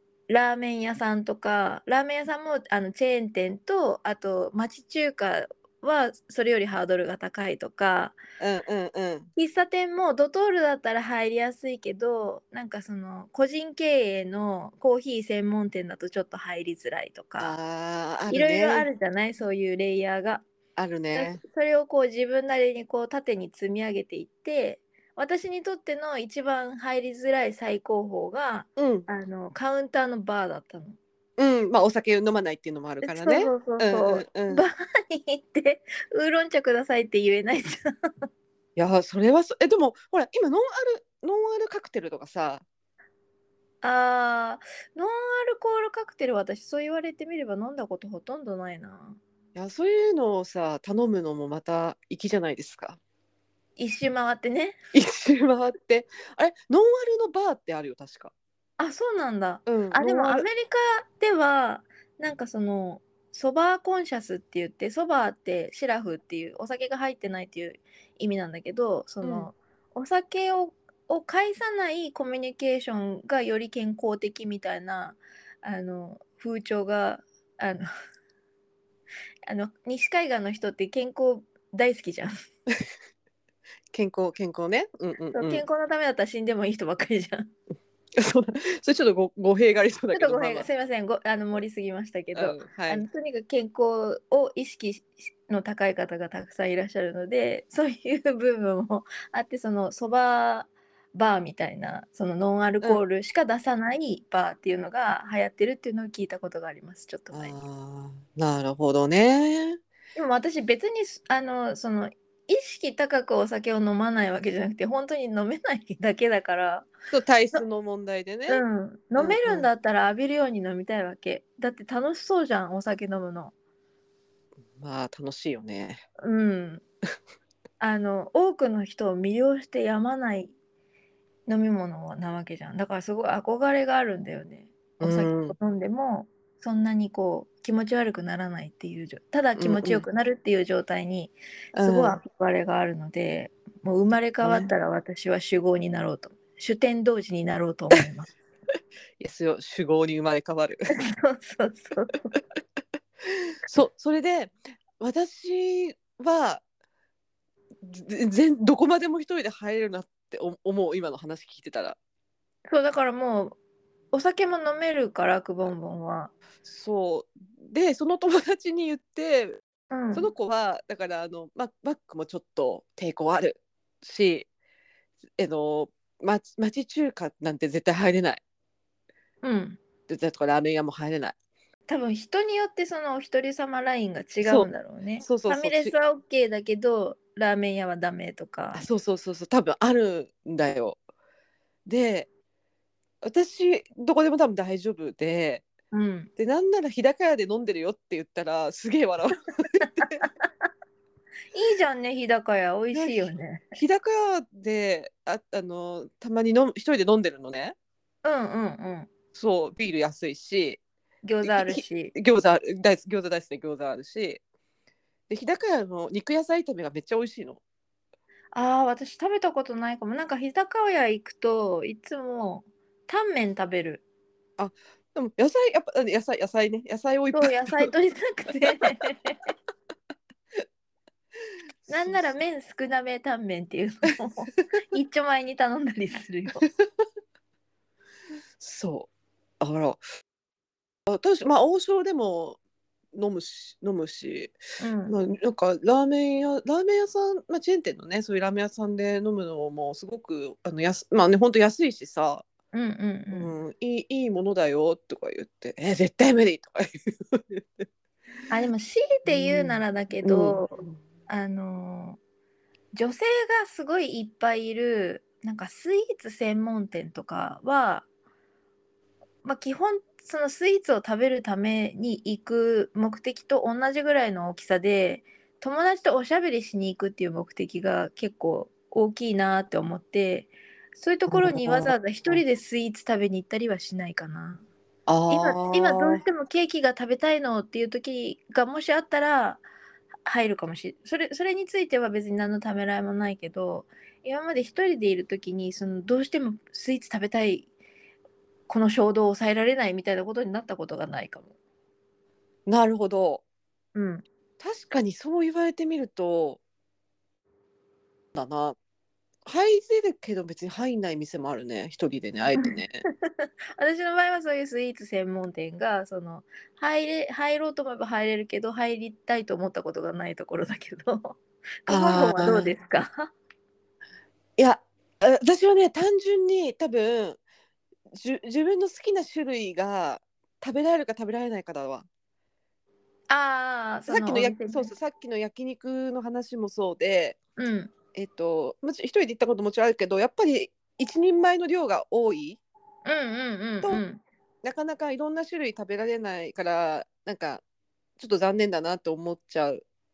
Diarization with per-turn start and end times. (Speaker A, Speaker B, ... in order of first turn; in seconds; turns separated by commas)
Speaker A: 0.3-8.2, Speaker B: 8.4-9.3, Speaker A: 9.3-17.5, Speaker B: 17.4-18.9, Speaker A: 18.3-20.4, Speaker B: 20.8-21.4, Speaker A: 21.1-31.0, Speaker B: 28.8-29.1, Speaker B: 31.4-34.6, Speaker A: 33.0-37.9, Speaker B: 38.8-42.6, Speaker A: 43.8-49.2, Speaker B: 49.5-53.0, Speaker A: 53.8-54.8, Speaker B: 54.9-58.3, Speaker A: 58.8-77.9, Speaker B: 59.6-60.5, Speaker B: 69.2-69.5, Speaker A: 79.5-82.3, Speaker B: 83.9-85.6, Speaker A: 85.3-87.5, Speaker B: 88.2-90.7, Speaker A: 90.1-107.5, Speaker B: 92.3-93.0, Speaker B: 107.3-109.8, Speaker A: 110.1-116.9, Speaker B: 117.1-118.6, Speaker A: 118.5-123.5, Speaker B: 119.2-119.7, Speaker B: 124.8-126.0, Speaker A: 126.2-126.8, Speaker A: 127.8-130.5, Speaker A: 131.5-148.3, Speaker B: 135.0-135.6, Speaker B: 139.6-140.0, Speaker B: 141.7-142.2, Speaker B: 144.4-144.7, Speaker B: 149.2-150.9, Speaker A: 150.9-152.3, Speaker B: 153.6-156.6, Speaker B: 157.9-162.0, Speaker A: 162.7-163.6, Speaker A: 164.1-166.3, Speaker B: 166.6-169.6, Speaker A: 169.9-170.3, Speaker B: 170.1-174.5, Speaker B: 175.4-178.4, Speaker A: 179.4-179.8, Speaker B: 180.1-181.3, Speaker A: 181.9-188.8, Speaker B: 184.4-184.7, Speaker B: 185.2-185.9, Speaker B: 188.7-191.0, Speaker B: 191.8-192.3, Speaker B: 193.2-195.7, Speaker A: 195.9-196.3, Speaker B: 196.4-200.3, Speaker A: 201.5-203.7, Speaker B: 202.9-207.8, Speaker A: 208.2-209.1, Speaker B: 209.3-210.8, Speaker A: 211.2-212.1, Speaker B: 211.4-214.4, Speaker B: 215.3-217.6, Speaker A: 218.5-224.0, Speaker B: 224.6-227.9, Speaker A: 227.3-229.3, Speaker B: 231.9-232.2, Speaker A: 231.9-236.6, Speaker B: 238.6-239.1, Speaker B: 239.6-240.0, Speaker B: 241.1-242.6, Speaker B: 243.1-244.6, Speaker A: 244.8-245.2, Speaker B: 245.1-252.4, Speaker A: 252.7-253.5, Speaker B: 253.3-257.9, Speaker A: 258.5-262.2, Speaker B: 259.2-260.6, Speaker A: 262.9-268.1, Speaker A: 269.4-284.6, Speaker B: 281.3-282.4, Speaker B: 285.1-286.2, Speaker A: 285.3-289.6, Speaker A: 290.2-297.7, Speaker A: 298.7-301.5, Speaker B: 302.7-303.4, Speaker A: 303.9-304.2, Speaker B: 304.6-306.6, Speaker B: 308.3-308.8, Speaker B: 309.4-313.0, Speaker A: 312.6-323.3, Speaker B: 321.9-322.7, Speaker B: 324.6-327.4, Speaker B: 328.1-332.1, Speaker A: 333.3-334.9, Speaker B: 334.1-337.4, Speaker A: 337.6-337.9, Speaker B: 338.1-342.6, Speaker A: 343.0-344.2, Speaker B: 344.6-347.6, Speaker B: 348.2-349.8